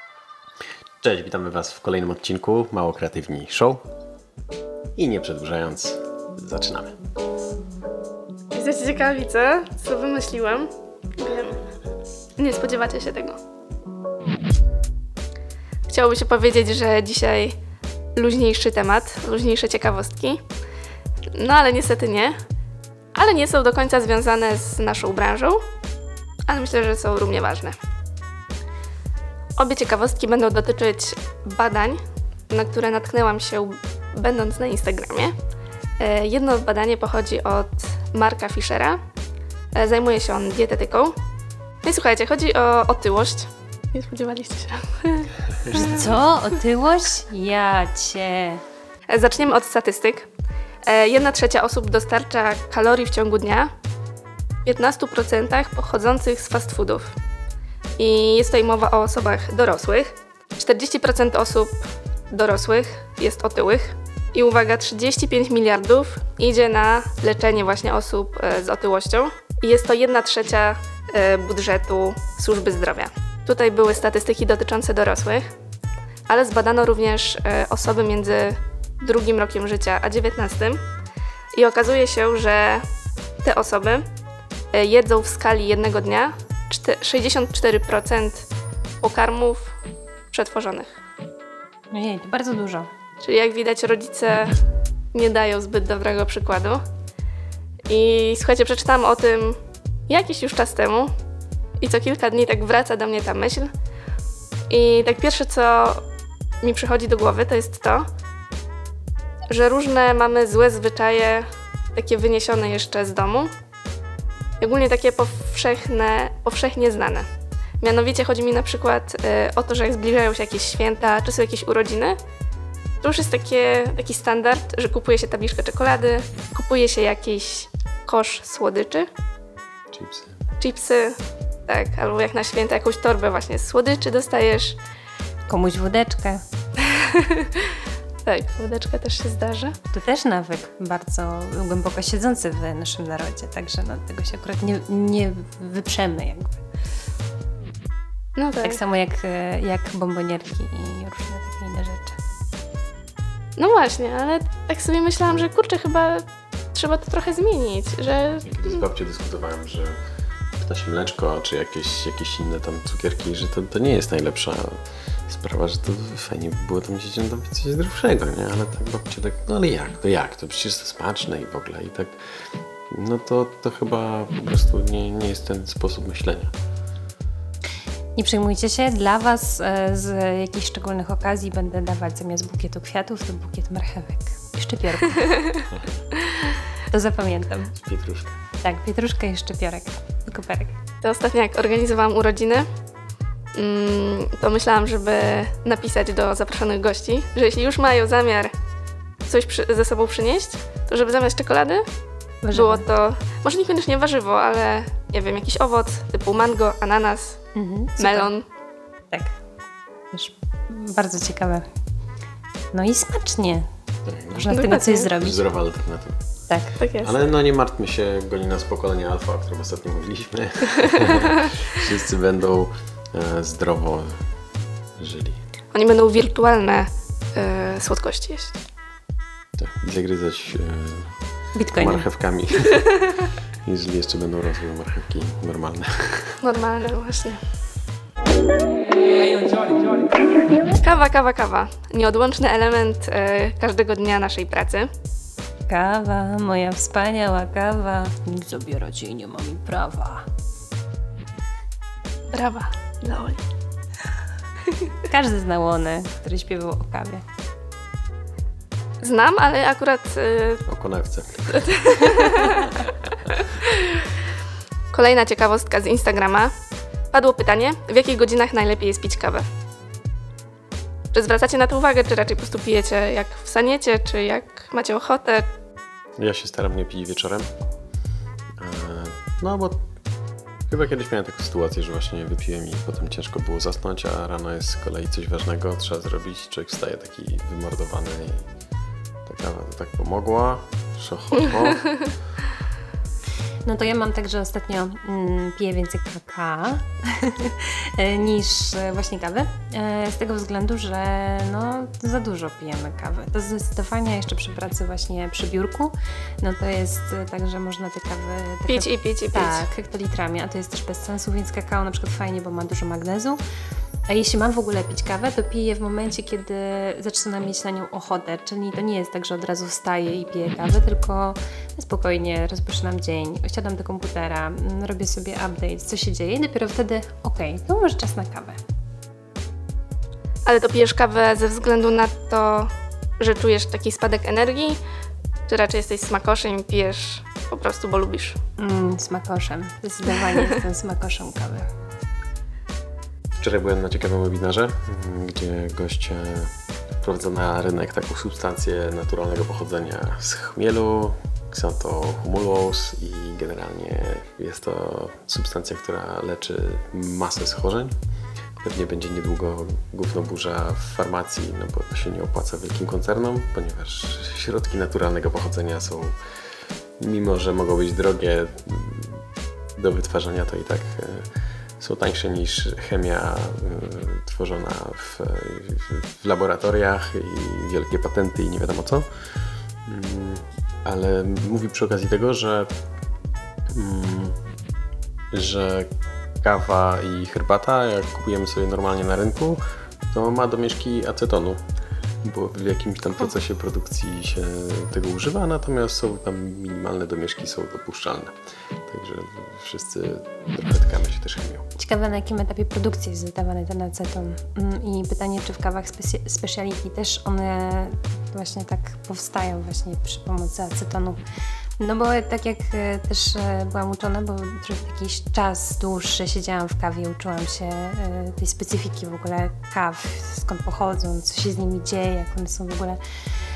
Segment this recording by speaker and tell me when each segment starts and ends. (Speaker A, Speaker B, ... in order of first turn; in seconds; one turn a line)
Speaker A: 1.0-3.8
Speaker A: 5.0-6.9
Speaker B: 8.5-11.6
Speaker B: 12.4-13.4
Speaker B: 15.9-17.5
Speaker B: 18.1-20.4
Speaker B: 21.3-22.3
Speaker B: 23.1-25.6
Speaker B: 26.5-27.8
Speaker B: 29.6-35.3
Speaker B: 36.0-39.0
Speaker B: 39.7-41.1
Speaker B: 41.8-45.9
Speaker C: 45.7-48.6
Speaker B: 49.1-50.3
Speaker B: 50.9-53.7
Speaker B: 54.6-57.0
Speaker B: 58.0-75.4
Speaker B: 76.3-80.8
Speaker B: 81.5-82.8
Speaker B: 83.4-84.0
Speaker B: 84.7-88.5
Speaker B: 89.0-89.7
Speaker B: 90.3-91.0
Speaker C: 91.9-92.9
Speaker B: 93.2-94.5
Speaker B: 95.1-96.8
Speaker B: 97.9-101.1
Speaker B: 101.8-103.7
Speaker B: 104.7-106.0
Speaker B: 106.6-108.0
Speaker B: 109.5-113.5
Speaker B: 114.6-117.2
Speaker B: 117.8-122.2
Speaker B: 123.0-129.1
Speaker A: 129.9-130.4
Speaker B: 130.6-134.8
Speaker C: 135.5-136.4
Speaker B: 136.8-137.7
Speaker B: 138.2-139.7
Speaker C: 139.9-146.6
Speaker B: 148.3-148.8
Speaker C: 148.6-152.2
Speaker B: 153.6-158.8
Speaker A: 158.4-159.9
Speaker A: 160.6-172.2
Speaker A: 172.9-176.5
Speaker C: 178.2-185.5
Speaker A: 185.7-186.0
Speaker C: 186.9-187.7
Speaker A: 187.8-188.3
Speaker C: 188.6-190.7
Speaker B: 191.0-192.7
Speaker B: 193.5-198.5
Speaker B: 199.2-201.8
Speaker C: 202.4-202.8
Speaker B: 202.5-207.4
Speaker C: 207.5-208.3
Speaker B: 208.0-208.4
Speaker C: 209.1-209.3
Speaker C: 210.1-211.7
Speaker C: 212.7-213.7
Speaker A: 214.1-214.5
Speaker C: 214.3-215.4
Speaker B: 214.5-215.1
Speaker A: 215.1-216.2
Speaker C: 216.5-216.8
Speaker B: 216.8-217.2
Speaker A: 217.0-224.2
Speaker A: 225.0-225.4
Speaker B: 225.7-228.6
Speaker A: 229.6-231.1
Speaker C: 231.5-232.1
Speaker A: 231.8-233.0
Speaker A: 233.7-236.3
Speaker B: 236.4-237.4
Speaker B: 240.8-244.9
Speaker C: 245.7-250.2
Speaker B: 252.3-253.4
Speaker B: 254.7-254.9
Speaker C: 255.0-257.2
Speaker B: 259.0-260.6
Speaker A: 260.7-261.6
Speaker B: 261.5-264.1
Speaker B: 264.9-266.5
Speaker B: 267.1-269.4
Speaker B: 271.1-275.5
Speaker A: 276.2-277.5
Speaker A: 278.6-279.8
Speaker A: 280.7-288.4
Speaker A: 289.2-292.0
Speaker C: 293.6-313.4
Speaker B: 308.7-309.6
Speaker C: 314.1-328.6
Speaker B: 330.4-334.8
Speaker B: 335.5-338.4
Speaker C: 338.6-341.6
Speaker A: 343.4-357.9
Speaker A: 358.6-366.1
Speaker A: 367.0-369.2
Speaker A: 369.8-371.3
Speaker A: 371.8-379.1
Speaker A: 379.9-382.7
Speaker A: 383.7-384.3
Speaker A: 385.3-385.9
Speaker A: 386.4-389.6
Speaker A: 390.1-391.6
Speaker A: 392.2-398.3
Speaker A: 398.9-401.7
Speaker C: 401.8-411.2
Speaker C: 411.8-423.0